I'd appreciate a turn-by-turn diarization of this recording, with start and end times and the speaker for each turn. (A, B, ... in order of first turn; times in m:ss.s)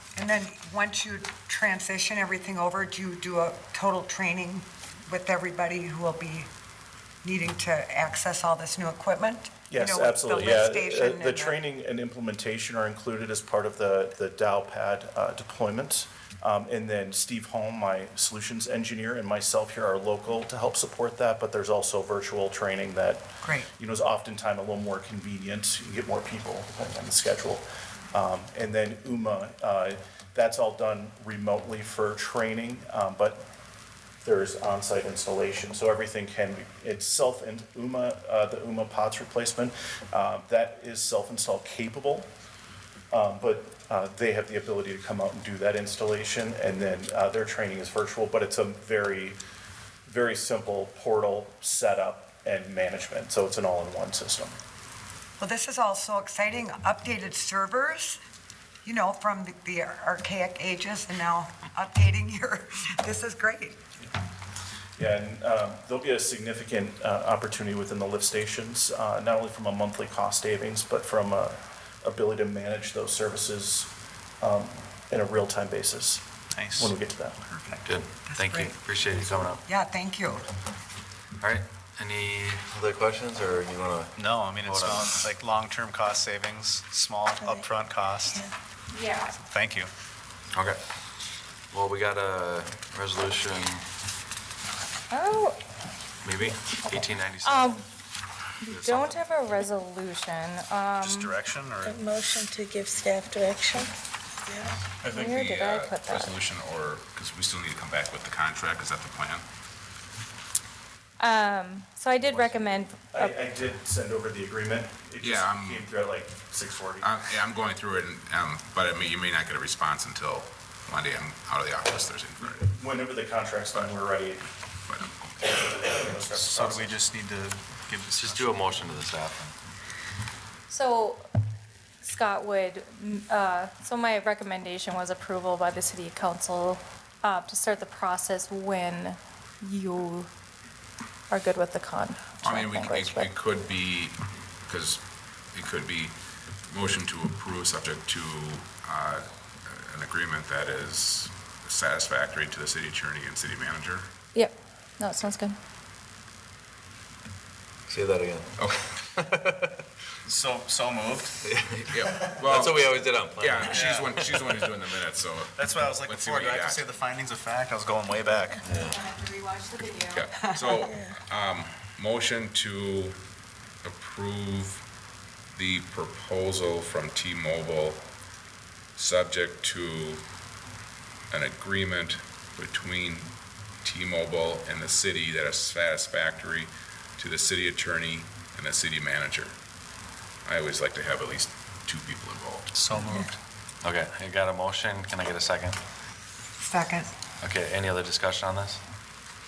0:00.2-0:06.5 A
0:07.2-0:11.6 A
0:09.7-0:33.4 B
0:23.4-0:23.7 A
0:34.2-0:42.3 B
0:43.1-0:49.4 B
0:50.0-0:54.6 B
0:55.4-0:58.2 A
0:58.8-1:03.8 A
1:05.0-1:17.4 B
1:16.5-1:16.9 C
1:17.6-1:18.8 A
1:17.8-1:19.6 D
1:19.4-1:20.5 A
1:21.4-1:25.3 D
1:24.2-1:28.4 C
1:28.9-1:29.3 E
1:29.3-1:29.9 C
1:31.7-1:33.8 D
1:35.1-1:35.6 E
1:36.2-1:37.8 D
1:36.9-1:37.8 E
1:38.6-1:41.3 E
1:38.7-1:39.3 D
1:41.0-1:42.0 C
1:41.9-1:43.9 F
1:44.5-1:44.7 F
1:45.0-1:49.4 G
1:45.1-1:46.4 E
1:51.2-1:53.4 E
1:52.3-1:52.6 G
1:53.1-1:57.1 B
1:55.2-1:55.9 G
1:57.0-2:02.7 G
2:02.4-2:04.4 B
2:04.9-2:05.3 G
2:05.4-2:07.0 B
2:06.3-2:08.8 C
2:08.1-2:09.5 D
2:10.7-2:11.2 E
2:12.0-2:20.3 E
2:21.3-2:23.3 E
2:22.4-2:25.0 G
2:25.5-2:26.1 G
2:26.7-2:34.1 G
2:34.3-2:35.6 E
2:37.9-2:38.6 D
2:38.6-2:38.9 G
2:39.2-2:39.7 D
2:40.2-2:41.4 C
2:41.4-2:44.5 D
2:41.9-2:46.9 G
2:43.6-2:44.1 C
2:45.6-2:48.7 C
2:48.6-2:49.0 D
2:48.8-2:50.4 E
2:50.0-2:53.2 G
2:53.8-2:54.8 G
2:55.5-2:58.0 G
2:59.0-3:00.2 G
3:01.3-3:09.5 G
3:10.4-3:12.7 G
3:12.7-3:13.4 C
3:13.8-3:15.8 D
3:16.6-3:17.1 A
3:17.4-3:18.8 D